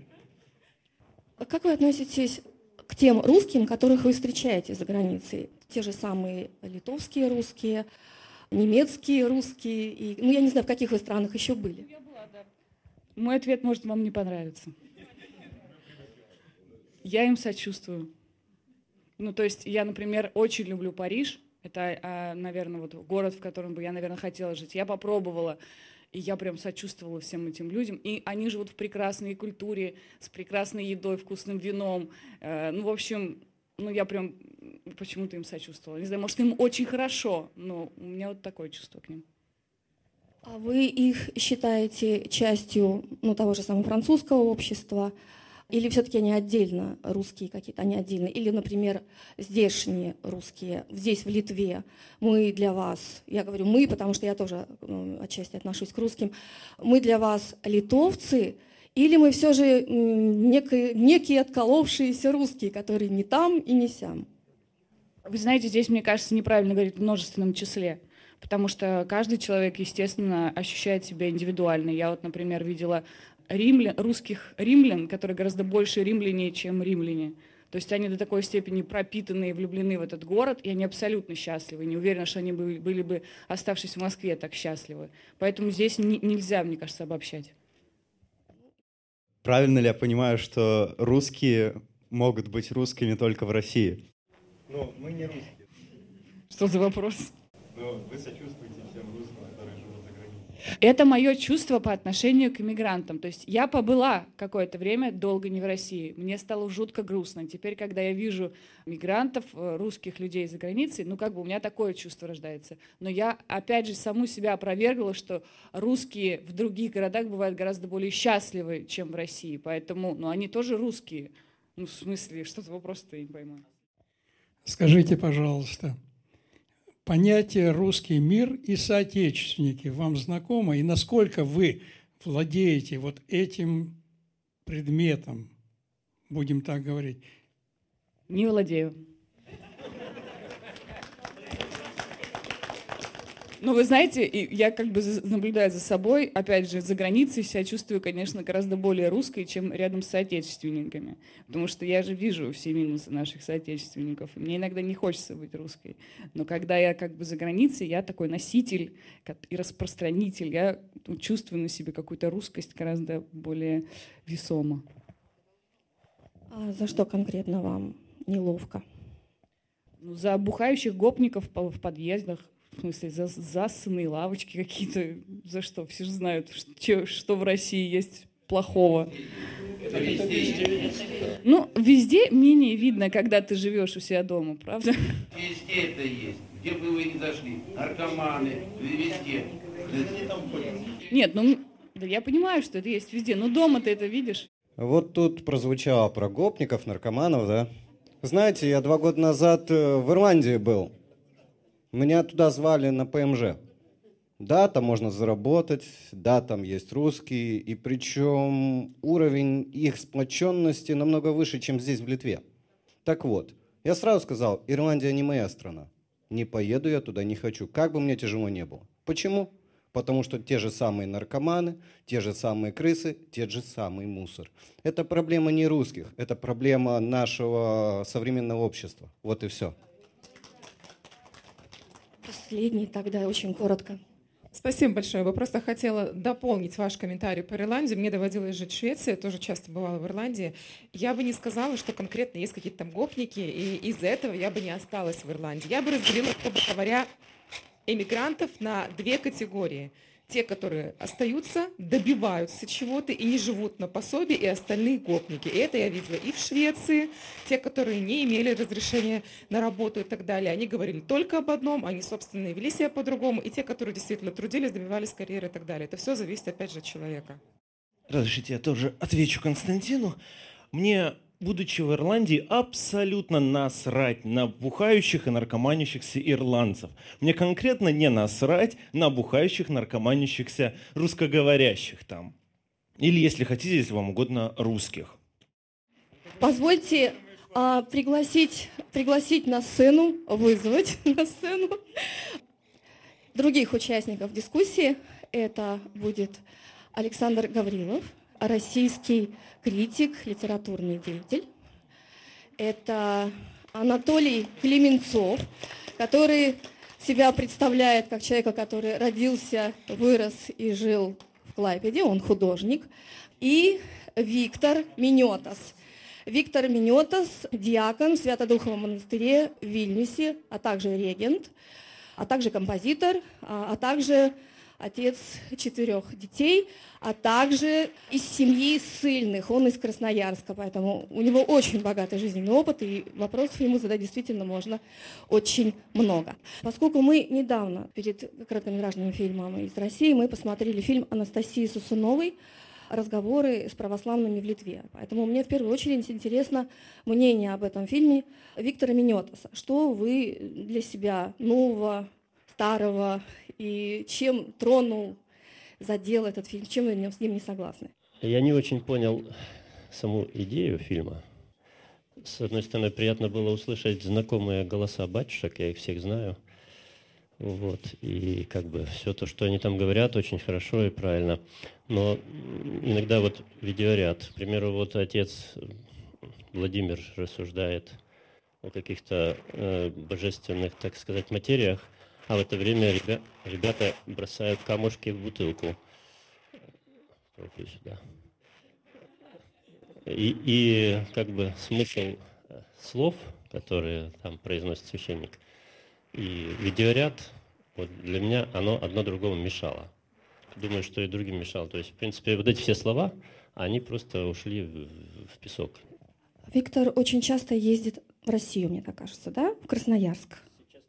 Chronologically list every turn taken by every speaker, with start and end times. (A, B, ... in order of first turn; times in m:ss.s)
0:01.4-0:07.9 A
0:08.5-0:11.9 A
0:12.0-0:12.4 B
0:13.2-0:14.7 B
0:17.0-0:18.1 B
0:19.2-0:25.6 B
0:26.1-0:39.2 B
0:40.4-0:45.1 A
0:45.7-1:04.3 A
1:05.3-1:27.5 B
1:29.4-1:34.0 C
1:34.7-1:35.6 C
1:36.5-1:37.3 B
1:37.7-1:40.5 C
1:40.8-2:03.6 B
2:04.6-2:06.0 D
2:07.0-2:13.9 D
2:14.7-2:15.5 D
2:16.3-2:17.2 D
2:18.3-2:18.9 B
2:23.6-2:44.8 B
2:46.5-2:48.8 A
2:50.0-2:59.1 B
2:59.9-3:00.6 E
3:01.4-3:05.2 B
3:05.3-3:10.3 E
3:11.1-3:14.5 B
3:14.8-3:17.7 F
3:18.2-3:20.9 F
3:21.9-3:23.6 F
3:24.4-3:32.4 F
3:33.0-3:49.8 F
3:52.2-3:54.0 A
3:54.5-4:07.1 G
4:07.9-4:27.4 G
4:28.1-4:30.2 H
4:30.7-4:42.3 H
4:43.0-4:45.2 H
4:46.4-4:51.8 A
4:53.3-4:56.4 A
4:56.9-5:01.5 A
5:02.6-5:12.9 A
5:13.4-5:15.7 A
5:16.3-5:21.5 A
5:22.2-5:42.4 A
5:42.9-5:55.2 A
5:55.8-5:57.9 A
5:58.2-5:59.3 I
5:59.9-6:01.2 I
6:02.2-6:06.4 I
6:07.4-6:15.8 I
6:16.5-6:18.0 I
6:18.6-6:25.8 I
6:27.3-6:28.0 I
6:30.1-6:35.4 I
6:36.1-6:39.9 I
6:40.6-6:45.8 I
6:46.5-6:50.4 A